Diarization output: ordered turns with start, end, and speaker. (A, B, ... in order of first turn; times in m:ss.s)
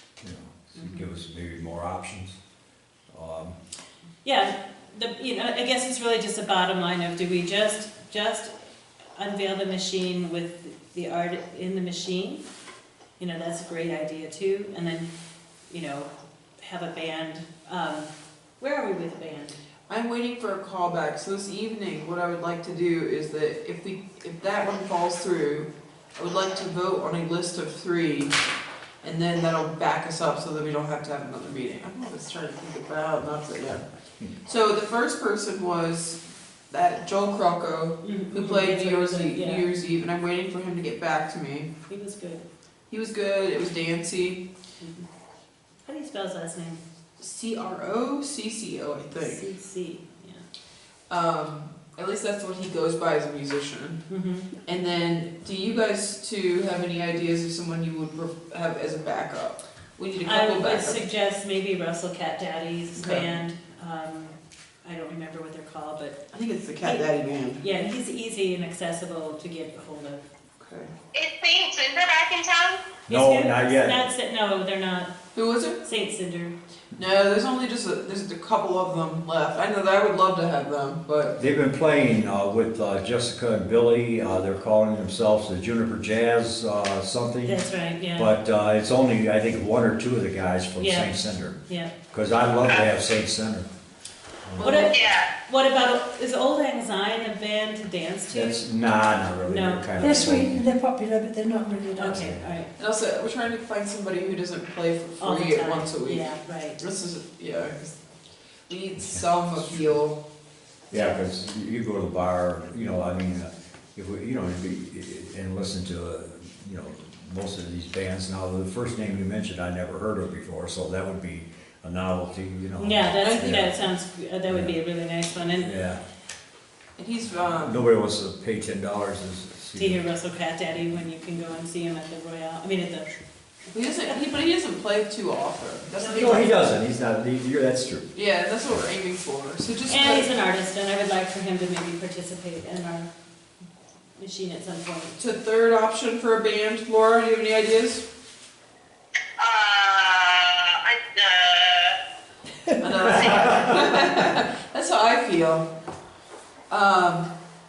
0:00.2-0:02.4 A
0:03.1-0:03.6 A
0:04.2-0:08.5 B
0:09.2-0:12.4 B
0:13.2-0:15.1 B
0:15.7-0:16.1 B
0:16.6-0:18.1 B
0:18.6-0:19.6 B
0:19.9-0:28.4 C
0:29.0-0:33.8 C
0:34.4-0:41.7 C
0:38.0-0:39.7 B
0:41.9-0:42.4 B
0:42.9-0:44.4 C
0:44.8-0:45.1 B
0:45.8-0:46.8 B
0:47.2-0:49.5 C
0:49.2-0:50.4 B
0:51.1-0:54.0 C
0:54.1-0:54.5 B
0:54.7-1:01.0 C
1:00.2-1:06.2 B
1:03.0-1:03.3 C
1:06.3-1:07.6 C
1:07.6-1:10.2 B
1:10.6-1:10.9 C
1:11.1-1:12.9 D
1:13.1-1:14.0 A
1:13.1-1:15.1 B
1:15.4-1:15.8 C
1:15.8-1:16.6 B
1:17.0-1:21.4 C
1:21.4-1:27.6 A
1:27.4-1:28.3 B
1:28.2-1:31.6 A
1:30.8-1:31.2 B
1:31.7-1:31.9 B
1:32.1-1:33.7 A
1:34.4-1:34.9 A
1:34.6-1:38.7 B
1:34.9-1:35.3 D
1:38.3-1:40.7 A
1:39.4-1:40.6 B
1:40.0-1:42.2 E
1:42.0-1:42.7 B
1:42.1-1:42.5 A
1:42.8-1:48.1 C
1:45.2-1:46.8 B
1:48.7-1:50.2 C
1:49.0-1:49.3 A
1:50.9-1:51.3 B
1:50.9-2:03.8 A
2:02.8-2:05.8 B
2:04.5-2:04.8 A
2:05.6-2:06.0 A
2:07.0-2:07.8 C
2:07.6-2:10.0 A
2:09.8-2:13.1 B
2:13.7-2:16.6 C
2:16.0-2:16.4 B
2:16.1-2:18.1 A
2:18.1-2:20.3 C
2:19.9-2:23.1 B
2:24.2-2:25.2 B
2:25.2-2:28.1 C
2:29.4-2:32.0 D
2:32.8-2:35.7 C
2:33.0-2:33.8 A
2:33.2-2:33.6 D
2:36.7-2:37.3 C